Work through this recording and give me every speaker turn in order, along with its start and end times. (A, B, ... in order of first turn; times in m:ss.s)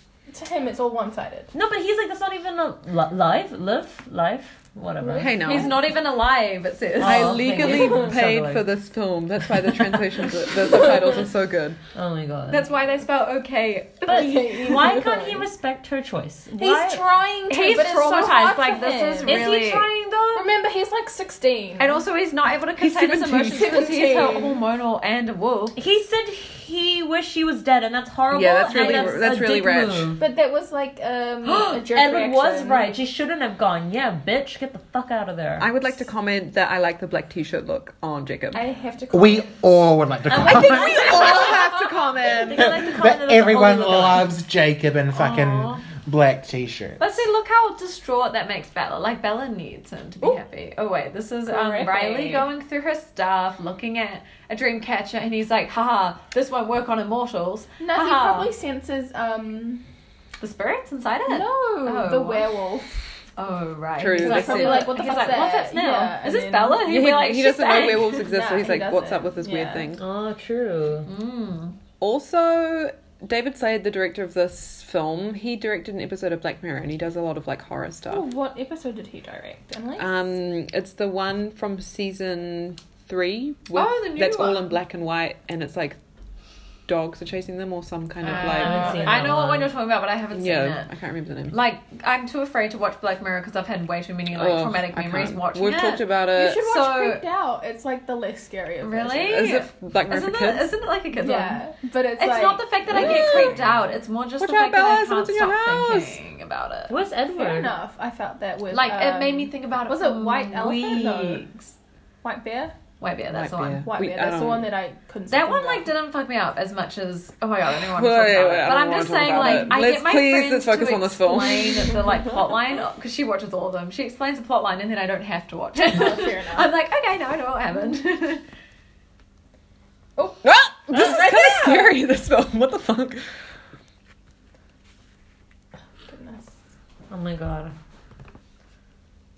0:00.3-0:01.5 A
0:01.5-0:05.7 B
0:05.0-0:05.7 A
0:05.2-0:05.8 C
0:05.4-0:07.8 D
0:07.0-0:08.7 B
0:07.0-0:11.8 C
0:10.9-0:11.2 B
0:11.9-0:12.7 B
0:12.5-0:14.5 D
0:14.1-0:17.0 B
0:14.1-0:15.5 A
0:16.6-0:19.5 A
0:17.5-0:19.9 D
0:19.2-0:20.5 B
0:20.3-0:22.0 A
0:21.8-0:25.8 D
0:22.8-0:23.9 C
0:23.5-0:24.6 A
0:25.8-0:30.2 B
0:28.3-0:30.2 C
0:28.8-0:29.2 D
0:30.2-0:32.9 A
0:31.4-0:35.7 B
0:35.6-0:38.6 C
0:38.5-0:39.8 A
0:39.1-0:41.2 E
0:40.3-0:42.1 D
0:40.3-0:41.6 B
0:40.4-0:41.6 A
0:40.9-0:42.8 C
0:42.2-0:44.4 B
0:42.5-0:47.2 E
0:45.1-0:45.8 D
0:47.0-0:58.5 D
0:51.5-0:52.5 A
0:57.8-0:59.8 A
1:00.4-1:02.5 D
1:01.3-1:03.1 A
1:03.4-1:08.2 D
1:04.0-1:05.2 C
1:04.1-1:06.8 A
1:06.8-1:10.0 C
1:08.0-1:10.0 A
1:10.0-1:11.1 B
1:11.0-1:11.8 D
1:12.0-1:18.3 C
1:18.1-1:20.3 A
1:20.0-1:26.0 C
1:23.7-1:24.8 D
1:26.9-1:29.0 C
1:28.2-1:30.9 D
1:28.3-1:29.7 B
1:28.3-1:29.3 A
1:30.3-1:31.6 C
1:31.5-1:37.2 D
1:34.3-1:36.6 C
1:36.4-1:39.4 A
1:38.8-1:41.6 D
1:39.2-1:40.8 C
1:41.2-1:43.5 A
1:42.2-1:47.0 D
1:42.9-1:43.7 C
1:44.4-1:46.2 C
1:46.9-1:47.8 B
1:47.3-1:51.5 A
1:48.7-1:51.8 D
1:52.2-1:52.8 A
1:53.0-1:53.9 D
1:53.3-1:54.7 C
1:53.8-1:55.9 A
1:55.3-2:08.4 D
1:57.9-2:02.0 C
2:05.8-2:06.7 A
2:10.2-2:12.0 A
2:10.4-2:13.2 C
2:16.1-2:16.5 A
2:17.1-2:17.7 B